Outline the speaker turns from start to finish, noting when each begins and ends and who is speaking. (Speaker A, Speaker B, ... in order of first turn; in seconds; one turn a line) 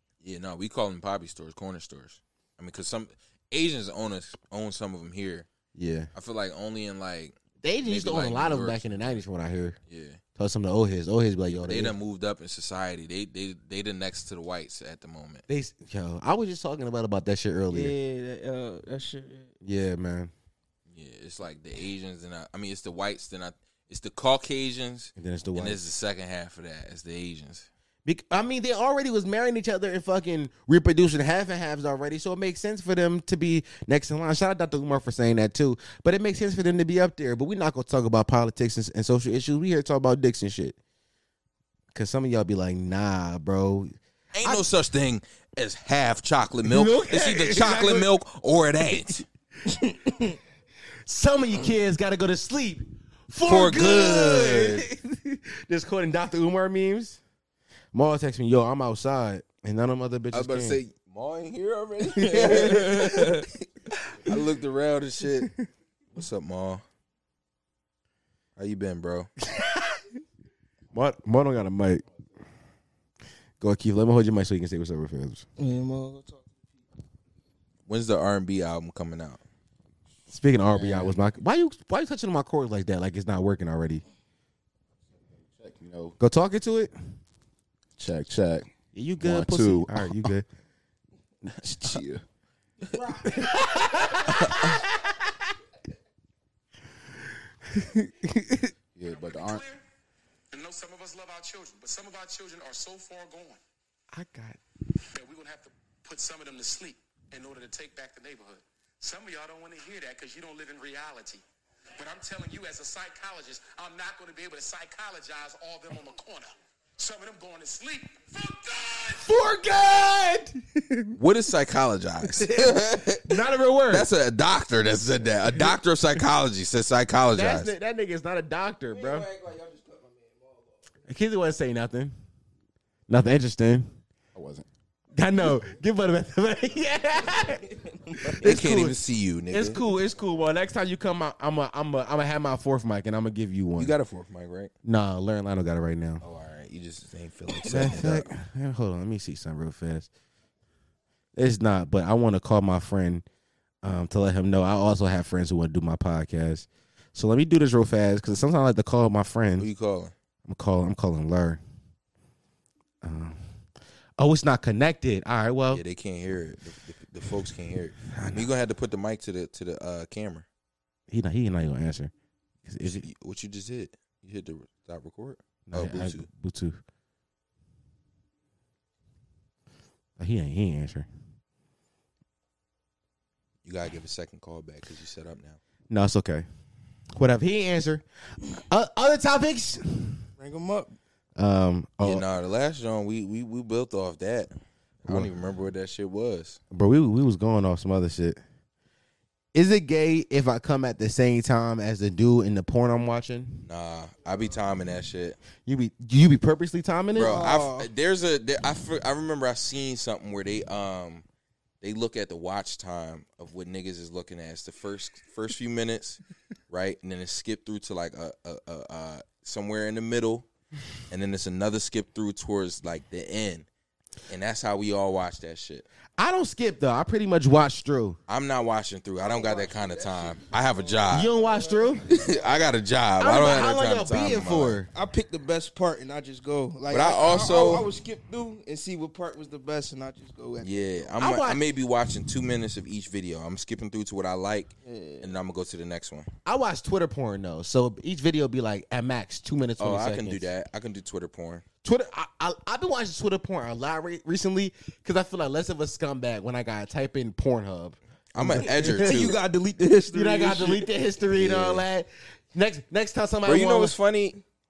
Speaker A: 0.2-5.5
Speaker B: 5.7-6.1
Speaker A: 6.1-9.2
Speaker B: 7.6-9.8
Speaker A: 9.9-10.2
Speaker B: 10.4-11.9
Speaker A: 11.5-15.4
Speaker B: 15.5-17.9
Speaker C: 17.7-19.5
Speaker B: 19.6-20.3
Speaker A: 20.9-27.7
Speaker B: 25.2-25.9
Speaker B: 28.1-40.8
Speaker B: 41.9-44.6
Speaker A: 44.3-49.2
Speaker B: 46.7-48.1
Speaker C: 50.1-50.3
Speaker B: 51.1-57.2
Speaker A: 53.4-54.9
Speaker B: 57.9-60.8
Speaker A: 60.3-63.5
Speaker C: 62.2-63.5
Speaker B: 62.4-63.0
Speaker A: 64.1-65.5
Speaker A: 66.1-66.8
Speaker A: 68.6-69.3
Speaker B: 70.9-72.0
Speaker B: 73.6-75.5
Speaker C: 75.6-76.6
Speaker A: 77.9-79.4
Speaker B: 80.3-84.0
Speaker D: 85.3-86.2
Speaker B: 86.2-86.9
Speaker D: 88.0-88.7
Speaker B: 88.9-90.5
Speaker D: 89.2-90.3
Speaker B: 91.6-92.0
Speaker D: 91.7-92.2
Speaker C: 93.0-93.3
Speaker B: 93.3-94.8
Speaker B: 97.7-98.7
Speaker D: 99.0-99.7
Speaker E: 99.1-99.8
Speaker E: 100.5-103.6
Speaker B: 104.1-104.6
Speaker E: 105.2-111.4
Speaker E: 112.0-119.2
Speaker B: 119.2-121.2
Speaker A: 121.2-127.7
Speaker B: 122.3-124.1
Speaker B: 127.3-129.3
Speaker C: 128.9-130.8
Speaker B: 131.1-132.1
Speaker B: 133.1-133.9
Speaker D: 134.3-134.7
Speaker B: 135.2-137.7
Speaker C: 137.7-138.3
Speaker B: 138.3-139.0
Speaker A: 138.4-139.8
Speaker B: 139.5-143.9
Speaker A: 143.8-144.7
Speaker B: 144.8-146.2
Speaker A: 146.2-148.3
Speaker B: 147.7-150.1
Speaker B: 151.4-153.2
Speaker B: 153.8-159.7
Speaker A: 159.6-160.1
Speaker B: 160.5-161.6
Speaker B: 163.0-163.4
Speaker B: 164.2-165.8
Speaker A: 165.7-170.5
Speaker B: 168.2-168.4
Speaker B: 171.1-172.1
Speaker B: 172.7-173.1
Speaker A: 172.8-176.3
Speaker B: 175.7-176.8
Speaker B: 180.2-181.1
Speaker A: 183.7-185.6
Speaker B: 185.9-186.5
Speaker B: 187.1-188.0
Speaker B: 188.7-190.2
Speaker C: 190.4-190.9
Speaker B: 191.4-192.2
Speaker A: 192.0-194.5
Speaker A: 195.0-196.6
Speaker B: 196.7-198.4
Speaker B: 199.5-203.7
Speaker A: 203.7-205.4
Speaker B: 205.7-207.4
Speaker A: 207.2-211.2
Speaker C: 207.2-207.9
Speaker A: 211.8-220.5
Speaker A: 221.1-223.7
Speaker A: 224.3-225.9
Speaker B: 226.2-228.2
Speaker A: 228.3-231.3
Speaker C: 229.2-232.6
Speaker B: 231.1-232.1
Speaker A: 232.1-234.8
Speaker B: 233.2-234.9
Speaker C: 234.9-241.1
Speaker A: 236.9-237.9
Speaker A: 240.6-246.3
Speaker B: 241.2-241.6
Speaker C: 244.8-245.3
Speaker B: 246.4-250.5
Speaker A: 249.8-251.7
Speaker B: 251.8-259.3
Speaker A: 258.3-259.4
Speaker C: 258.8-260.9
Speaker B: 260.1-263.9
Speaker A: 261.4-261.9
Speaker A: 263.4-264.4